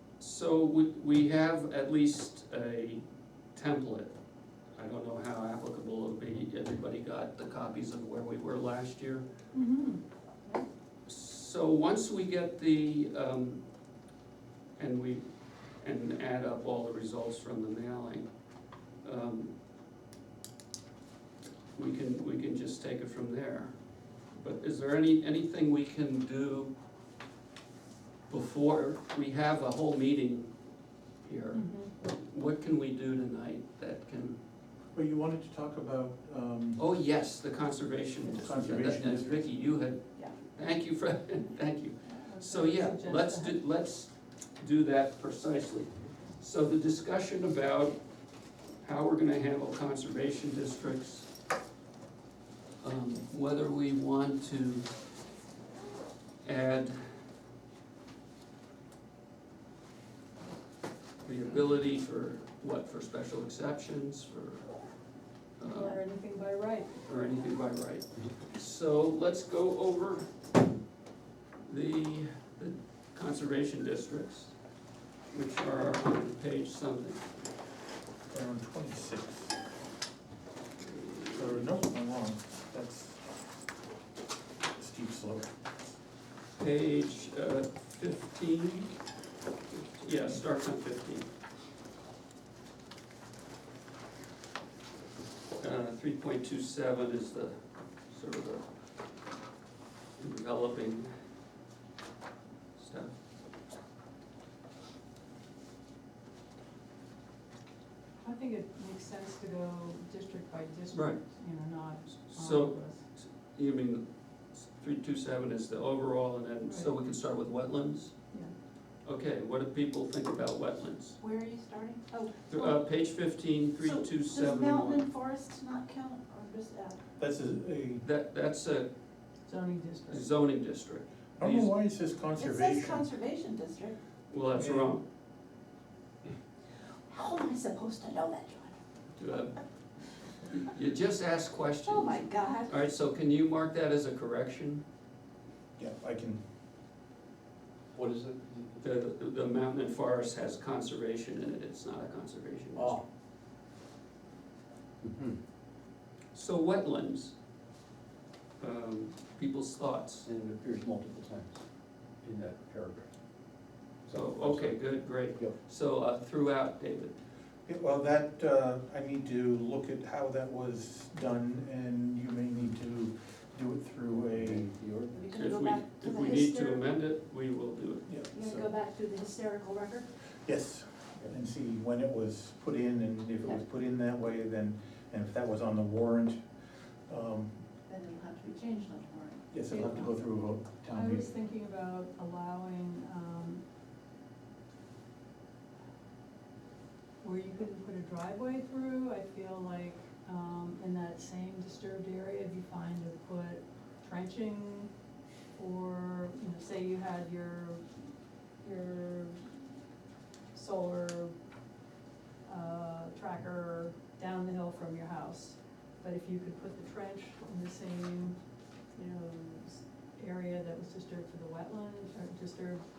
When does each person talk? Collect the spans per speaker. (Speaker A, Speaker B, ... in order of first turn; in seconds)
Speaker A: 0.2-3.0, 3.5-4.1, 4.8-9.2, 11.1-13.6, 14.8-15.2, 15.8-18.3, 19.0-19.5, 21.7-23.7, 24.3-26.7, 28.3-30.5, 31.2-34.4, 36.8-48.0, 48.8-51.3, 52.8-54.9, 56.4-57.1, 61.2-64.7, 65.6-66.0, 67.0-70.3, 71.6-74.5, 75.3-77.3, 80.8-81.8, 86.6-88.9, 89.8-91.3, 95.6-98.7, 100.2-101.1, 102.8-103.2, 110.9-111.2, 112.0-118.1, 119.0-121.2, 122.5-125.0, 128.0-128.9, 130.1-131.7, 134.3-135.0, 139.2-139.6, 140.4-144.8, 148.8-153.0, 156.3-157.3, 158.6-160.3, 164.1-167.2, 175.3-178.0
Speaker B: 9.5-10.6, 31.5-31.9, 40.1-40.4, 42.0-43.6, 65.6-67.0, 108.2-113.0, 116.6-117.0, 129.4-130.3, 190.9-193.6, 197.2-204.9, 205.6-207.9, 208.6-209.6, 210.5-211.3, 212.4-218.4, 218.9-222.8
Speaker C: 34.9-36.8, 38.3-39.5, 78.3-79.5, 81.3-83.3, 84.7-85.5, 127.2-128.0, 131.4-133.1, 134.6-134.9, 145.8-146.4, 167.7-174.7, 178.1-178.7, 180.4-186.5, 187.1-187.6, 189.5-191.3
Speaker D: 121.2-122.8, 123.8-127.0, 132.3-133.9, 137.1-138.8, 141.8-142.7, 175.1-176.8, 178.3-180.1, 187.9-190.0
Speaker E: 147.9-148.8, 152.7-153.0, 155.0-155.4, 160.2-161.6, 162.2-163.1, 164.1-165.5, 174.1-175.2